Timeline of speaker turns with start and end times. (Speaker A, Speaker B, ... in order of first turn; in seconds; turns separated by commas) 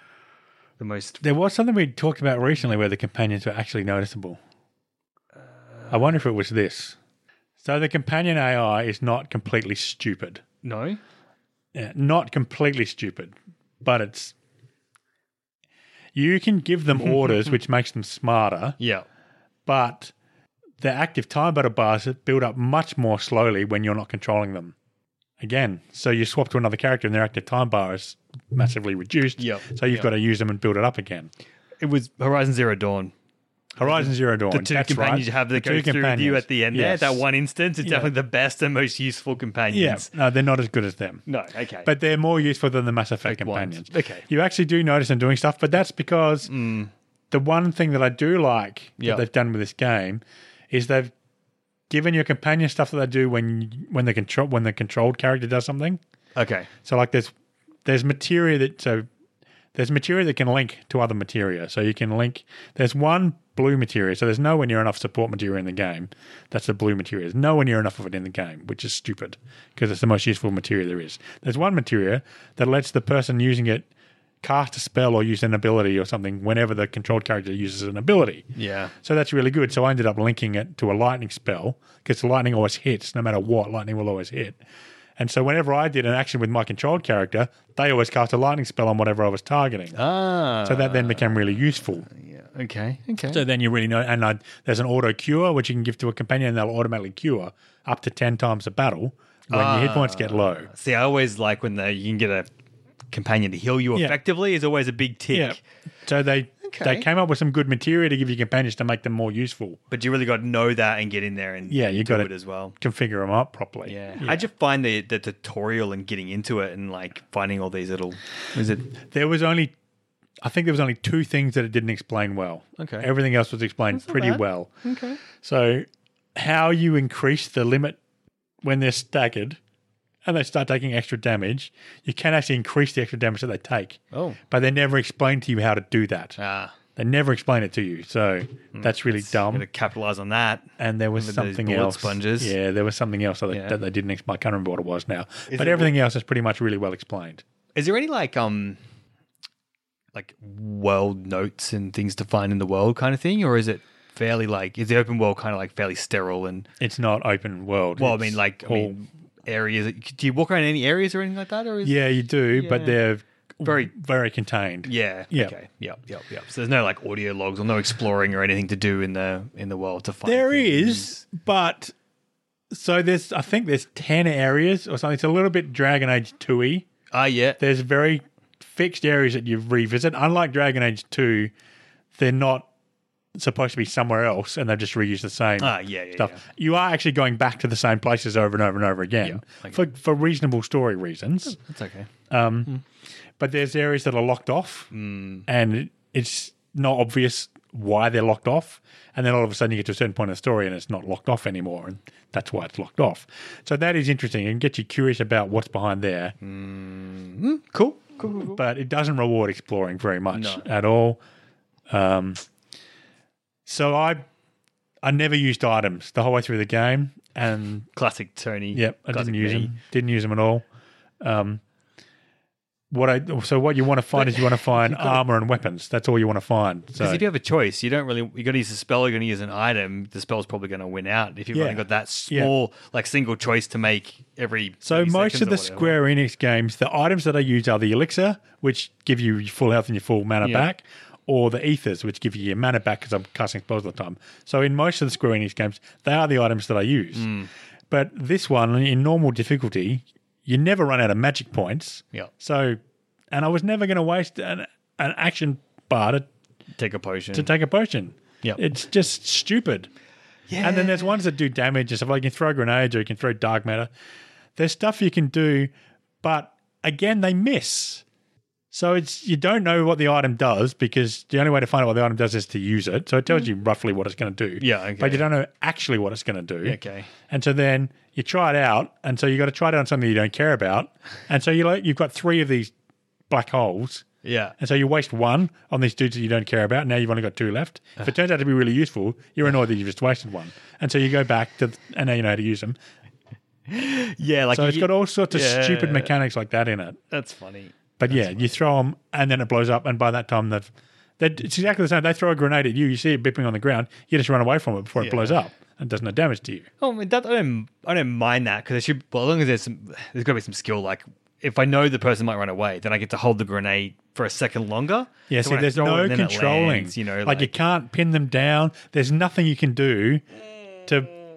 Speaker A: 0.8-1.2, Speaker B: 1.2-4.4, Speaker B: 5.9-7.0, Speaker B: 7.6-10.4, Speaker A: 10.6-11.0, Speaker B: 11.7-14.3, Speaker B: 16.1-18.8, Speaker A: 18.8-19.1, Speaker B: 19.7-20.1, Speaker B: 20.8-24.8, Speaker B: 25.4-31.3, Speaker A: 29.4-30.1, Speaker A: 31.8-33.1, Speaker B: 33.8-37.2, Speaker A: 33.8-40.1, Speaker B: 37.8-38.1, Speaker B: 39.7-41.2, Speaker A: 41.3-41.9, Speaker B: 41.9-46.5, Speaker A: 43.3-44.2, Speaker A: 46.5-46.9, Speaker B: 47.3-51.1, Speaker A: 49.0-49.2, Speaker B: 51.9-56.0, Speaker A: 56.4-56.7, Speaker B: 56.8-57.3, Speaker B: 57.9-59.1, Speaker B: 59.8-73.9, Speaker B: 74.4-78.5, Speaker A: 78.6-78.9, Speaker B: 79.0-84.6, Speaker B: 85.2-90.0, Speaker A: 89.9-91.4, Speaker B: 90.7-92.1, Speaker A: 92.1-93.4, Speaker B: 93.3-100.7, Speaker A: 99.5-102.5, Speaker A: 103.1-105.6, Speaker B: 105.3-109.8, Speaker A: 106.6-107.1, Speaker A: 109.9-112.8, Speaker B: 111.7-114.5, Speaker A: 113.9-118.9, Speaker B: 118.9-119.7, Speaker B: 120.4-124.7, Speaker A: 122.8-123.1, Speaker A: 123.9-125.2, Speaker B: 125.4-125.8, Speaker B: 126.4-128.0, Speaker B: 128.6-129.6, Speaker B: 130.2-136.4, Speaker A: 134.1-134.4, Speaker A: 136.4-136.8, Speaker B: 137.0-139.7, Speaker A: 138.7-142.5, Speaker B: 140.8-147.4, Speaker A: 143.5-143.8, Speaker A: 145.5-145.9, Speaker A: 147.8-148.8, Speaker A: 150.1-156.7, Speaker B: 156.8-158.9, Speaker A: 158.0-162.0, Speaker B: 161.8-165.5, Speaker A: 162.5-163.0, Speaker A: 163.6-163.9, Speaker A: 164.9-171.2, Speaker B: 170.2-171.9, Speaker B: 172.7-176.9, Speaker A: 177.1-177.6, Speaker B: 177.6-181.5, Speaker B: 182.2-182.7, Speaker B: 183.4-191.6, Speaker A: 185.6-186.4, Speaker A: 189.2-189.8, Speaker A: 191.6-192.1, Speaker B: 192.3-192.7, Speaker B: 193.4-194.9, Speaker A: 194.9-195.5, Speaker B: 195.5-206.3, Speaker A: 206.4-208.6, Speaker B: 208.6-211.2, Speaker A: 210.3-210.7, Speaker B: 211.9-212.4, Speaker B: 213.7-214.2, Speaker B: 215.0-217.9, Speaker A: 217.9-219.8, Speaker B: 218.8-220.7, Speaker B: 221.2-221.6, Speaker B: 222.9-227.2, Speaker A: 224.1-225.2, Speaker A: 227.0-236.0, Speaker B: 231.5-232.5, Speaker B: 234.8-247.3, Speaker A: 240.4-240.7, Speaker A: 247.2-247.5, Speaker B: 247.9-252.8, Speaker B: 253.3-256.3, Speaker A: 256.8-257.5, Speaker B: 257.3-259.9, Speaker A: 260.5-261.1, Speaker B: 260.6-263.9, Speaker B: 264.6-265.7, Speaker B: 266.2-268.0, Speaker B: 268.7-276.8, Speaker A: 274.6-275.3, Speaker A: 276.6-277.1, Speaker B: 277.3-282.7, Speaker B: 283.3-284.1, Speaker A: 284.2-284.5, Speaker B: 284.6-292.8, Speaker A: 293.7-296.1, Speaker B: 294.5-297.0, Speaker A: 297.1-298.4, Speaker B: 298.0-306.7, Speaker A: 305.0-305.4, Speaker A: 306.8-317.5, Speaker B: 315.3-320.2, Speaker B: 320.9-321.1